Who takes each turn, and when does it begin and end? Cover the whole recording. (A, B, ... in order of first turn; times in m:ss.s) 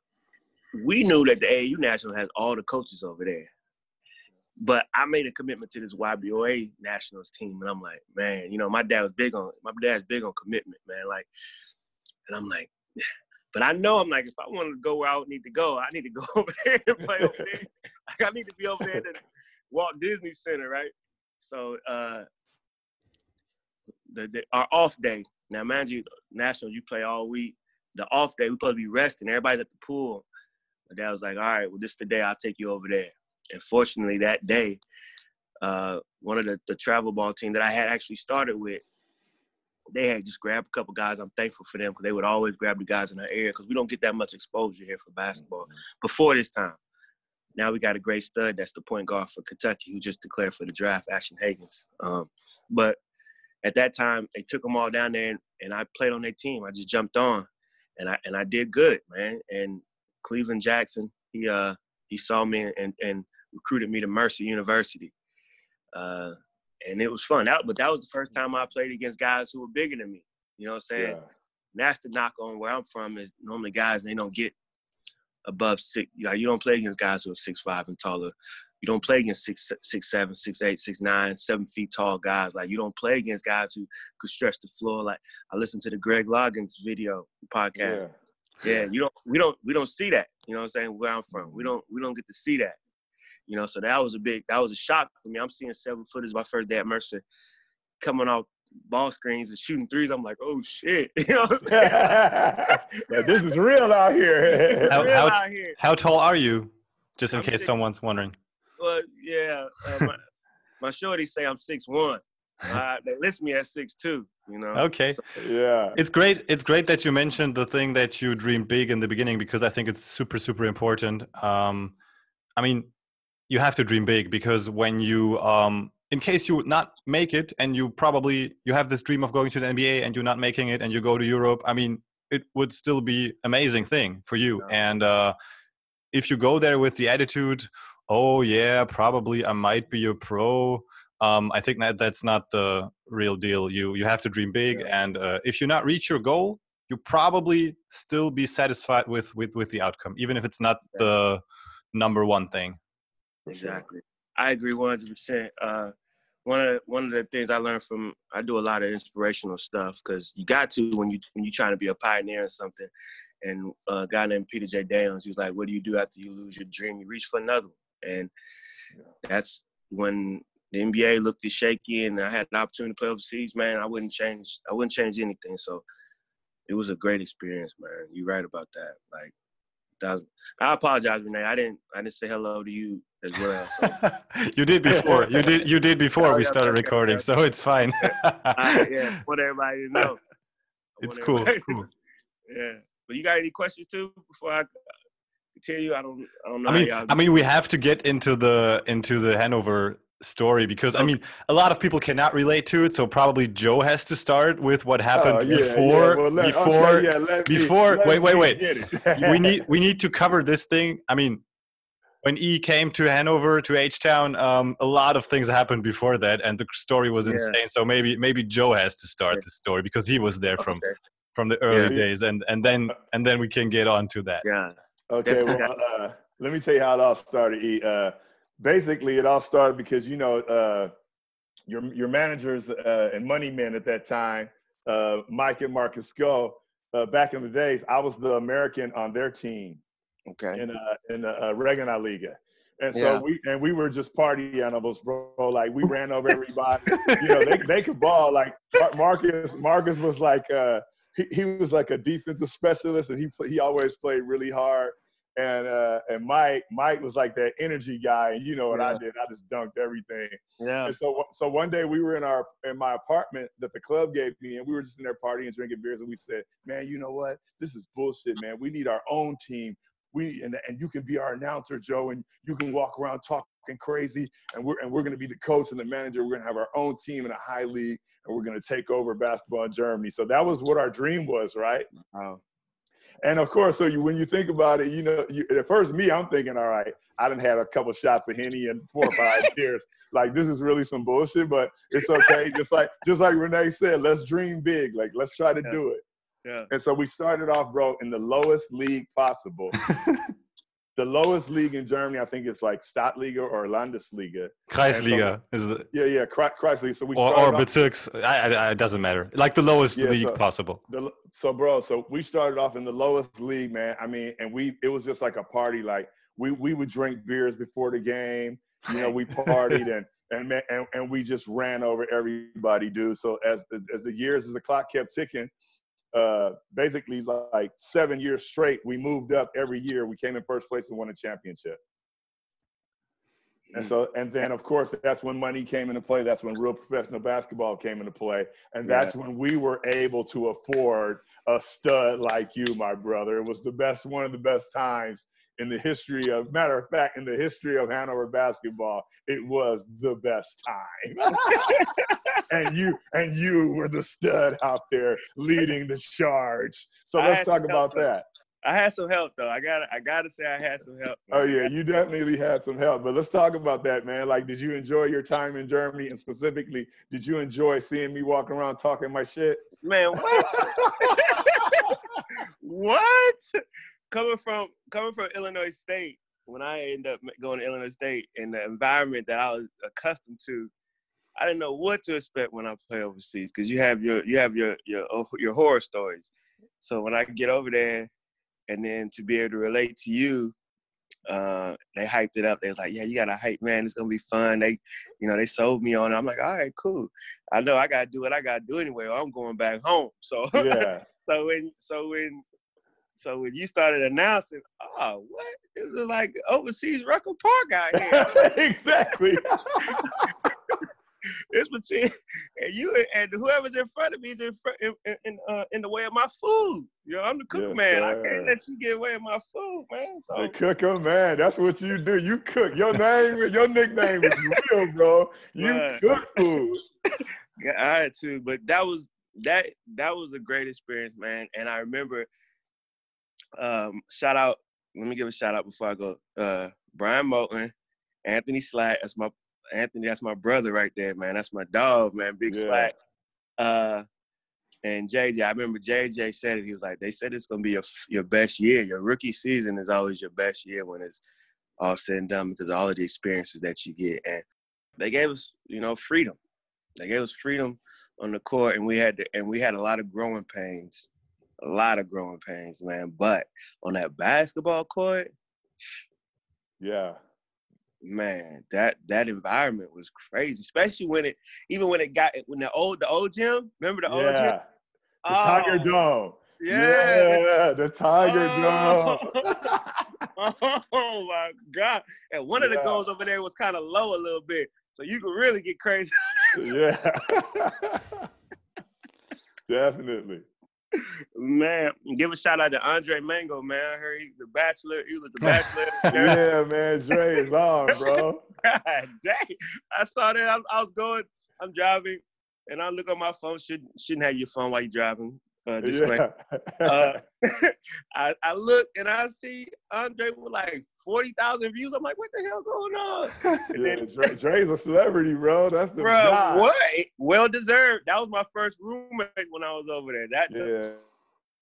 0:00.8-0:03.5 A
0:04.6-0:11.3 A
0:12.3-0:12.7 A
0:13.5-0:22.3 A
0:17.0-0:17.4 B
0:24.1-0:30.3 A
0:30.9-0:34.8 A
0:35.6-0:38.8 A
0:39.9-0:46.8 A
0:47.6-0:53.0 A
0:53.6-1:05.1 A
1:05.9-1:06.3 A
1:06.8-1:11.2 A
1:11.0-1:11.2 B
1:11.7-1:14.5 A
1:15.4-1:28.0 A
1:27.8-1:28.1 B
1:28.6-1:32.8 A
1:31.4-1:31.7 B
1:33.5-1:37.2 A
1:38.0-1:43.4 A
1:41.7-1:45.0 B
1:44.5-1:45.8 A
1:44.9-1:48.4 C
1:47.3-1:47.7 A
1:48.8-1:50.2 A
1:50.8-1:55.2 A
1:54.7-1:55.2 C
1:55.4-1:56.0 B
1:56.0-2:02.0 C
2:02.6-2:02.9 C
2:03.5-2:15.4 C
2:16.1-2:32.8 C
2:33.5-2:33.9 B
2:33.5-2:35.9 A
2:36.4-2:42.9 A
2:43.4-2:48.3 A
2:49.2-2:55.9 A
2:56.7-2:59.3 A
3:00.0-3:04.0 A
3:03.8-3:09.2 C
3:04.9-3:05.3 B
3:06.2-3:07.2 A
3:08.6-3:10.2 A
3:11.0-3:11.9 A
3:11.0-3:11.9 C
3:12.5-3:14.7 A
3:15.6-3:17.2 A
3:16.7-3:31.4 C
3:25.2-3:29.7 B
3:32.2-3:44.4 C
3:37.2-3:37.6 A
3:40.6-3:40.9 A
3:41.7-3:42.0 A
3:44.4-3:44.7 A
3:45.1-3:50.9 B
3:45.2-3:45.7 A
3:51.7-3:59.8 B
4:00.3-4:00.6 A
4:00.6-4:41.9 B
4:02.9-4:03.2 A
4:06.9-4:07.5 C
4:18.7-4:19.0 A
4:20.6-4:21.0 A
4:42.0-4:42.4 A
4:43.2-4:56.0 B
4:49.1-4:49.5 A
4:56.4-4:56.7 A
4:56.7-4:59.8 B
5:01.0-5:05.3 B
5:04.7-5:05.9 C
5:05.9-5:07.7 B
5:07.2-5:10.8 C
5:10.0-5:25.5 B
5:26.1-5:31.8 B
5:33.7-5:51.9 B
5:38.9-5:39.1 A
5:51.5-5:52.4 A
5:52.5-5:58.2 B
5:57.2-6:01.7 A
6:01.3-6:09.6 B
6:09.8-6:12.0 A
6:10.2-6:11.9 B
6:12.6-6:13.4 A
6:14.1-6:20.7 A
6:21.4-6:28.1 A
6:28.7-6:30.5 A
6:31.3-6:42.4 A
6:40.5-6:41.1 B
6:43.2-6:48.6 A
6:48.0-6:50.3 B
6:49.9-6:50.5 A
6:51.5-7:00.5 A
6:57.5-6:58.6 B
7:00.4-7:06.8 B
7:04.2-7:04.6 A
7:05.6-7:06.6 A
7:07.6-7:12.3 A
7:13.6-7:17.7 A
7:18.2-7:23.0 A
7:22.5-7:22.9 B
7:23.6-7:24.0 A
7:24.8-7:31.2 A
7:31.8-7:34.4 A
7:35.0-7:36.4 A
7:37.0-7:41.1 A
7:41.6-7:45.3 A
7:46.8-7:47.2 B
7:48.0-7:54.6 A
7:54.1-7:54.6 B
7:55.2-7:55.9 A
7:55.3-8:00.3 B
7:56.6-7:57.4 A
7:58.2-7:59.7 A
8:00.4-8:06.7 A
8:02.6-8:03.0 B
8:06.6-8:08.3 B
8:09.7-8:10.5 B
8:11.0-8:16.4 A
8:15.4-8:16.2 C
8:16.1-8:18.4 B
8:17.9-8:26.2 A
8:25.8-8:27.2 B
8:26.8-8:34.0 A
8:33.8-8:36.7 B
8:36.0-8:40.9 A
8:40.5-8:41.0 B